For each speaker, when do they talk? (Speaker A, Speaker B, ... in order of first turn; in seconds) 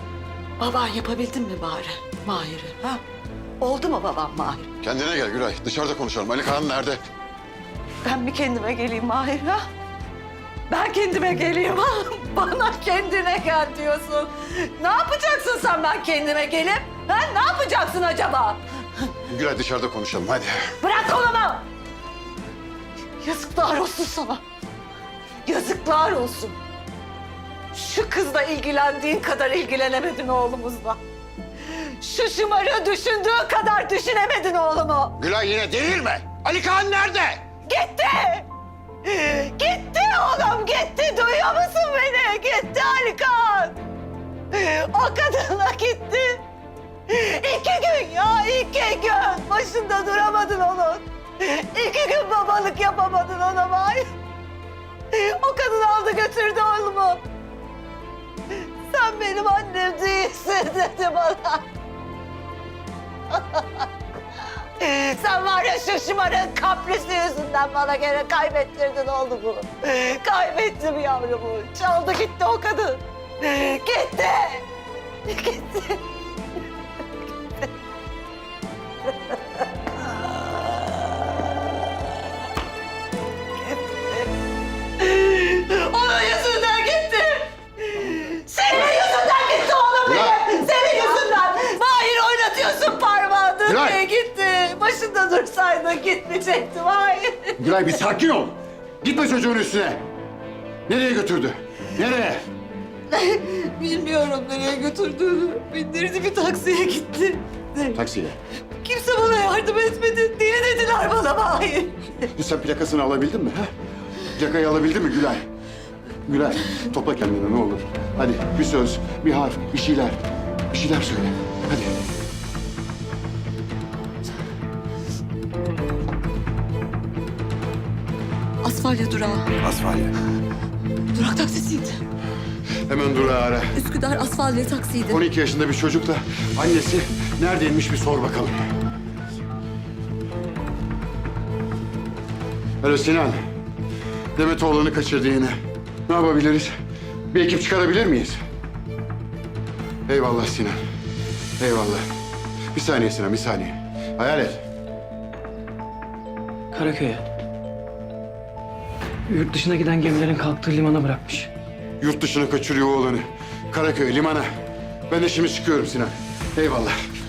Speaker A: 0.6-3.0, 3.6-4.7, 8.0-9.7, 10.7-18.6, 20.8-21.6, 23.2-24.4, 25.4-26.6, 27.7-31.0, 31.7-35.1, 37.6-38.5, 39.0-43.8, 44.5-46.4, 47.1-54.1, 55.1-57.2, 58.9-61.6, 63.3-63.9, 64.8-74.6, 75.3-76.0, 85.0-97.6, 103.1-108.0, 108.8-112.3, 128.6-129.5, 131.1-132.0, 133.7-135.2
Speaker B: 4.8-7.0, 19.2-20.6, 35.2-37.4, 90.0-90.3, 93.7-94.0, 97.6-100.0, 100.9-102.4, 107.9-108.4, 112.3-113.7, 114.3-115.4, 116.2-120.2, 120.7-121.9, 129.6-130.1, 132.9-133.7, 135.1-138.6, 142.8-143.4, 144.3-145.6, 146.1-146.7, 147.3-148.4, 150.1-150.8, 151.6-152.0, 152.7-154.6, 162.0-164.5, 165.1-166.9
Speaker C: 156.7-157.2, 159.3-161.5